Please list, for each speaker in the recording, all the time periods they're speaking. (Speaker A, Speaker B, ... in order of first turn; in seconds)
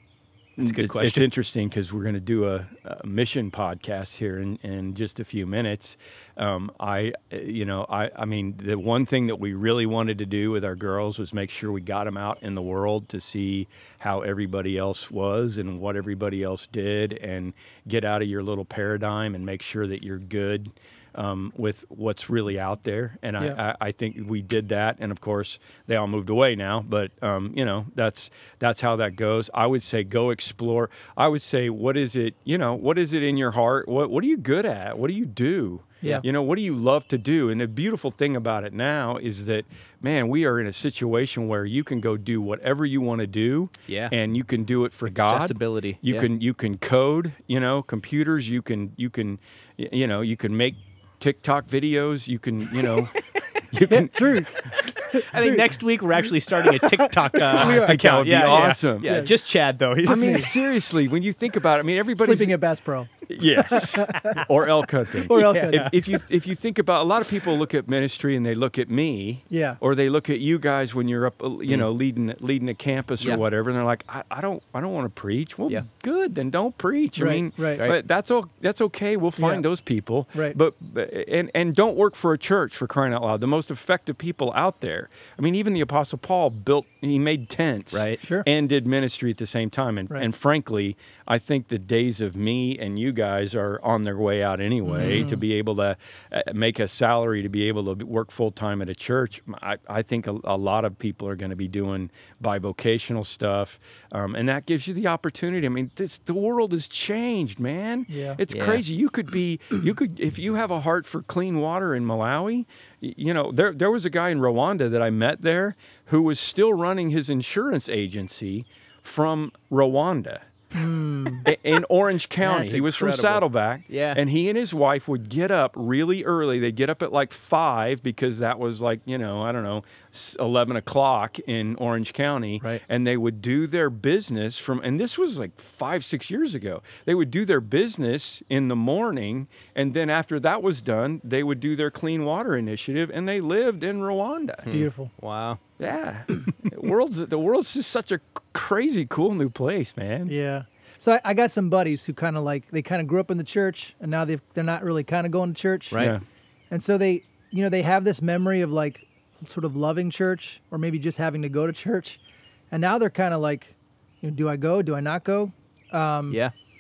Speaker A: 0.6-54.8, 57.5-59.2, 60.0-62.6, 63.3-120.5, 121.4-144.7, 145.8-150.3, 155.9-156.2
Speaker B: 0.6-1.3, 43.9-44.1, 45.1-46.3, 54.9-60.5, 65.3-66.0, 87.9-88.2, 95.0-95.3, 108.5-108.8, 122.4-124.2, 144.7-145.6
Speaker C: 53.8-55.7, 56.6-59.3, 60.0-60.5, 62.2-64.5, 65.1-66.0, 69.5-69.8, 77.2-77.8, 79.4-79.6, 88.2-88.5, 94.9-95.4, 108.1-108.4, 120.7-121.5, 144.7-145.1, 150.3-156.1, 156.7-162.2, 162.7-166.4